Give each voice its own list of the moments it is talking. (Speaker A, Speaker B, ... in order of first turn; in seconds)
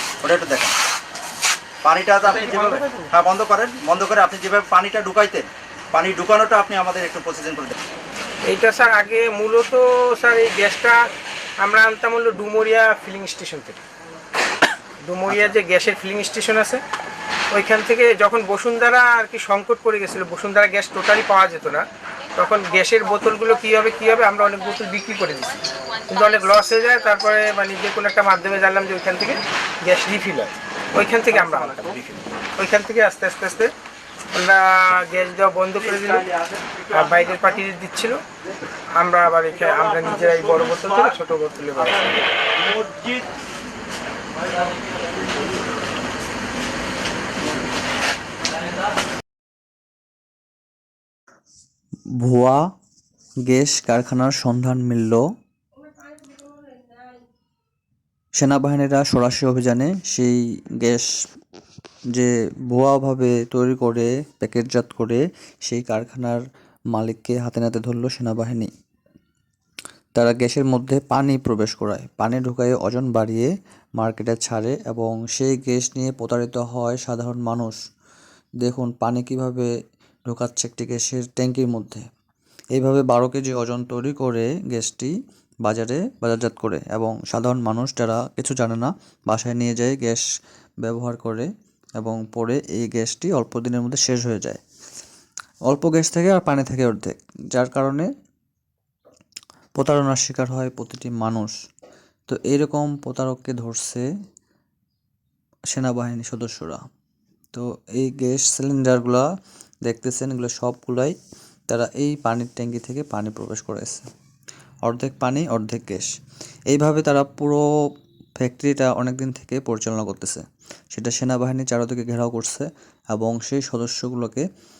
Speaker A: 0.2-0.7, 1.8-7.7, 31.3-32.2, 35.9-36.6, 39.5-41.1, 41.8-43.3
Speaker B: 2.2-3.1, 8.4-11.0, 11.6-13.8, 15.0-16.8, 17.5-21.8, 22.3-31.9, 32.6-33.7, 34.3-36.3, 36.9-38.2, 39.0-42.2
Speaker C: 52.2-52.6, 53.5-55.2, 58.4-61.1, 62.1-66.4, 66.9-68.7, 70.2-77.8, 78.6-79.7, 80.3-82.0, 82.8-85.1, 85.6-90.2, 90.8-91.5, 92.0-94.6, 95.7-98.1, 99.8-101.5, 102.3-104.1, 105.7-106.8, 107.5-109.2, 109.8-111.2, 111.7-114.1, 114.8-116.1, 116.7-117.6, 118.4-124.4